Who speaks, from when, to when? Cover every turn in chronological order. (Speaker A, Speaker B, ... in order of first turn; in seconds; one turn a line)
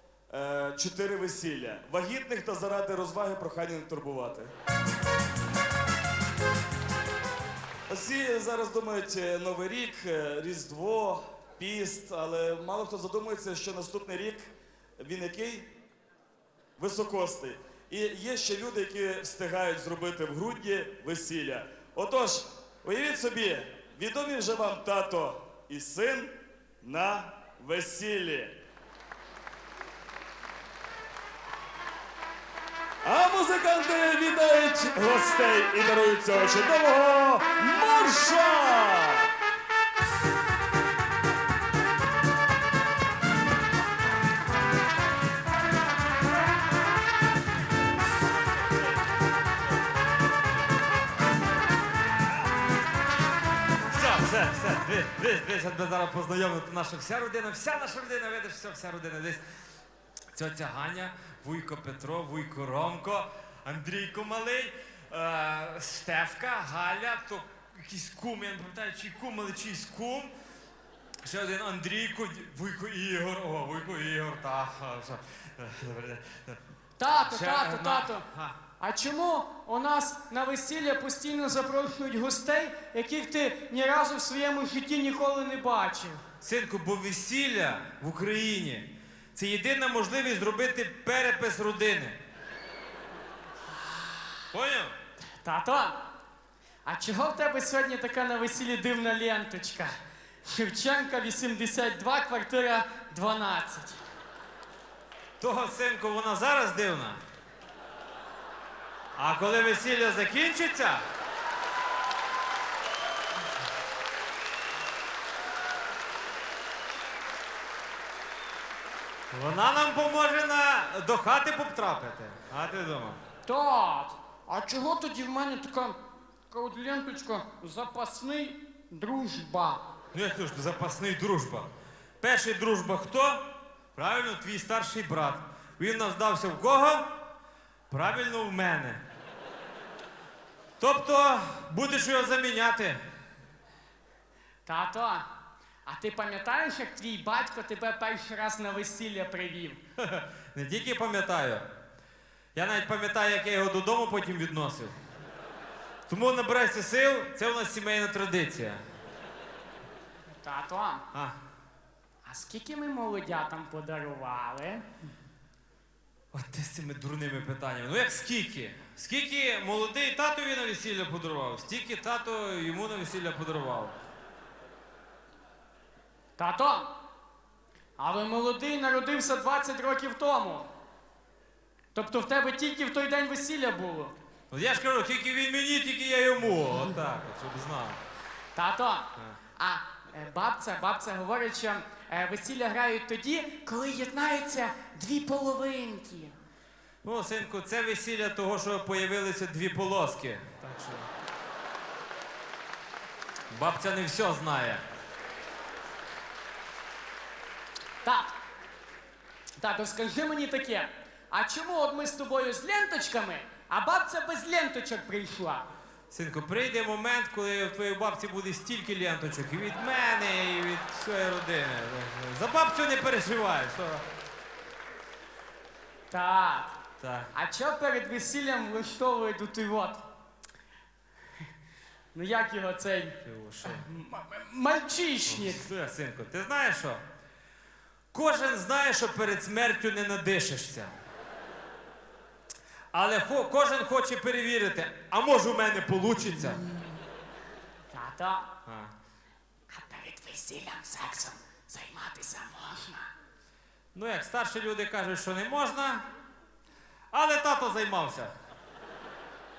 Speaker A: 0.3-4.5
Speaker A: 7.9-15.7
Speaker A: 16.8-28.6
Speaker A: 33.0-39.3
Speaker B: 53.9-59.4
Speaker B: 60.3-70.3
Speaker B: 71.2-76.6
Speaker C: 77.0-78.2
Speaker B: 77.1-78.5
Speaker C: 78.8-86.2
Speaker B: 86.4-92.2
Speaker B: 94.5-94.9
Speaker C: 95.4-96.0
Speaker C: 96.9-104.0
Speaker B: 105.4-107.2
Speaker B: 109.2-111.0
Speaker B: 119.3-123.2
Speaker C: 123.4-126.0
Speaker C: 126.5-129.8
Speaker B: 130.1-131.7
Speaker B: 132.2-133.4
Speaker B: 133.9-137.0
Speaker B: 137.9-139.0
Speaker B: 140.8-143.0
Speaker C: 144.7-145.2
Speaker C: 145.9-149.8
Speaker B: 150.0-151.7
Speaker B: 152.6-154.9
Speaker B: 156.1-158.8
Speaker C: 160.4-161.0
Speaker C: 162.2-164.8
Speaker B: 166.3-174.0
Speaker C: 176.4-176.9
Speaker C: 178.0-180.7
Speaker C: 181.9-184.1
Speaker B: 184.5-188.0
Speaker C: 188.6-189.1
Speaker C: 189.6-196.4
Speaker B: 197.0-201.1
Speaker B: 203.5-204.8
Speaker C: 208.0-208.3
Speaker C: 209.6-215.6
Speaker B: 216.1-224.0
Speaker C: 226.1-226.7
Speaker B: 227.0-227.3
Speaker C: 227.3-230.0
Speaker C: 232.1-235.7
Speaker B: 233.2-233.9
Speaker B: 235.3-237.0
Speaker B: 238.1-241.0
Speaker B: 242.9-246.6
Speaker C: 247.9-248.5
Speaker B: 248.7-248.9
Speaker C: 249.7-253.1
Speaker B: 253.9-256.0
Speaker B: 257.1-258.3